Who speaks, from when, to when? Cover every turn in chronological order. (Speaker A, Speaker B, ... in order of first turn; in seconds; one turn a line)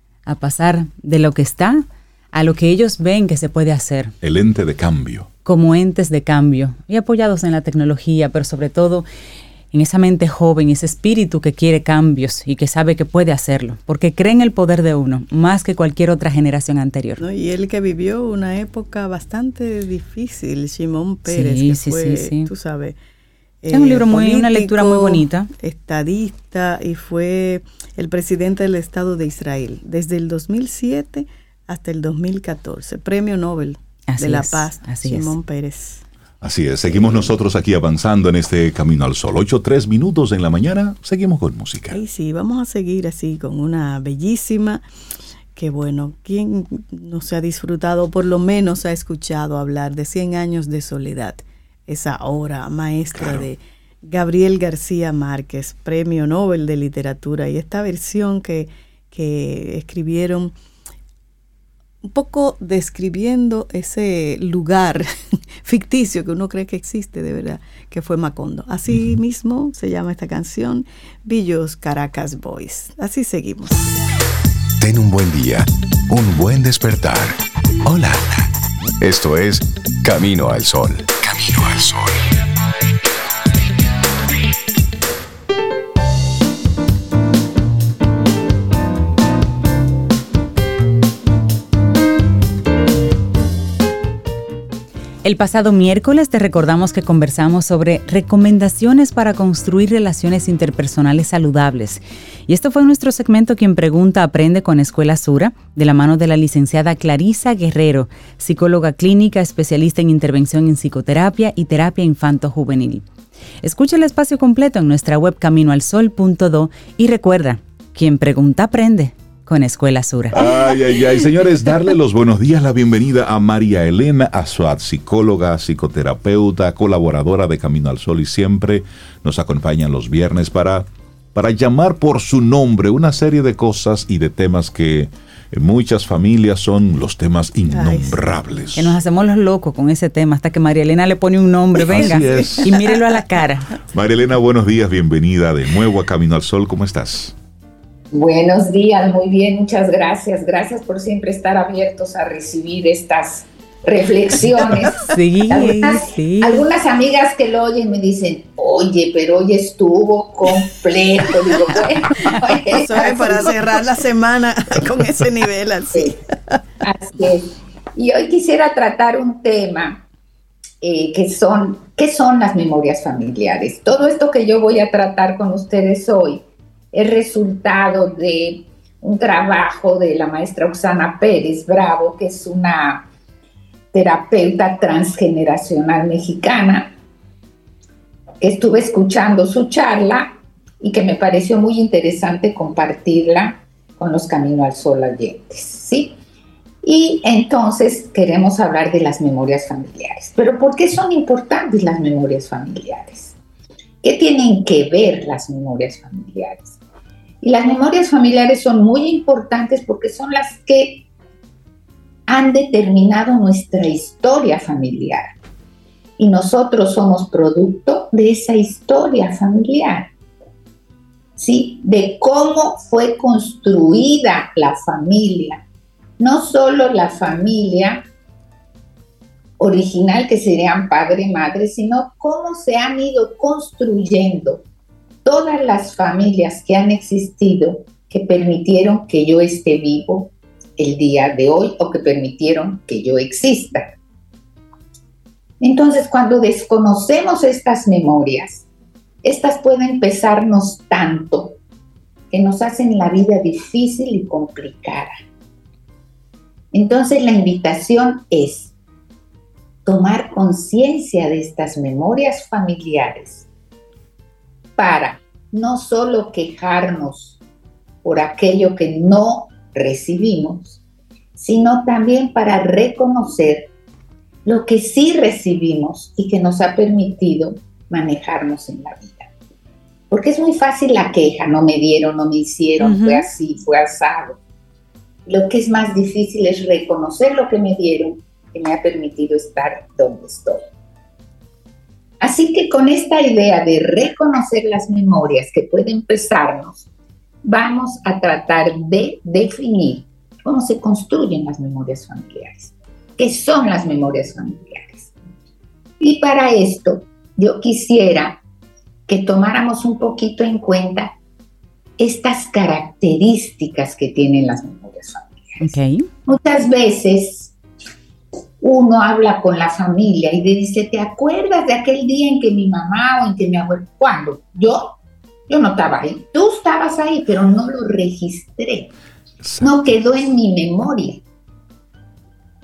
Speaker A: 0.2-4.1
Speaker B: 4.2-5.3
Speaker A: 5.4-9.1
Speaker A: 9.7-17.2
Speaker C: 17.2-23.0
Speaker A: 21.3-22.5
Speaker C: 23.6-36.0
Speaker A: 23.7-25.5
Speaker A: 34.1-35.3
Speaker B: 36.4-42.0
Speaker C: 36.9-37.3
Speaker C: 41.9-44.8
Speaker C: 45.5-60.5
Speaker B: 53.1-53.5
Speaker C: 62.0-65.1
Speaker C: 65.6-73.8
Speaker B: 68.9-69.2
Speaker D: 74.8-78.5
Speaker D: 79.0-82.2
Speaker A: 95.2-113.0
Speaker A: 113.6-120.4
Speaker B: 120.3-138.9
Speaker C: 137.7-138.8
Speaker A: 138.8-143.7
Speaker B: 141.9-142.8
Speaker C: 141.9-142.7
Speaker B: 143.9-147.3
Speaker E: 148.1-163.6
Speaker A: 155.0-156.6
Speaker C: 162.7-166.6
Speaker E: 166.8-170.0
Speaker E: 170.8-183.1
Speaker E: 183.9-186.9
Speaker E: 188.4-196.2
Speaker E: 196.8-203.3
Speaker E: 204.0-206.8
Speaker E: 207.4-211.1
Speaker E: 212.3-215.3
Speaker E: 216.2-220.1
Speaker E: 221.4-225.6
Speaker E: 226.2-228.1
Speaker E: 229.6-234.6
Speaker E: 235.2-243.9
Speaker E: 245.6-248.7
Speaker E: 249.2-251.6
Speaker E: 252.3-255.1
Speaker E: 256.7-258.7
Speaker E: 259.8-263.5
Speaker E: 264.8-267.4
Speaker E: 268.0-270.8
Speaker E: 271.4-273.7
Speaker E: 274.4-279.3
Speaker E: 280.1-284.4
Speaker A: 282.8-283.3
Speaker E: 285.2-290.6
Speaker E: 292.2-296.9
Speaker E: 297.4-305.1
Speaker E: 306.0-308.4
Speaker E: 309.1-311.1
Speaker E: 312.0-315.6
Speaker A: 315.6-316.1
Speaker E: 316.2-317.5
Speaker E: 318.6-324.9
Speaker E: 325.5-328.9
Speaker B: 329.4-330.2
Speaker E: 329.6-331.2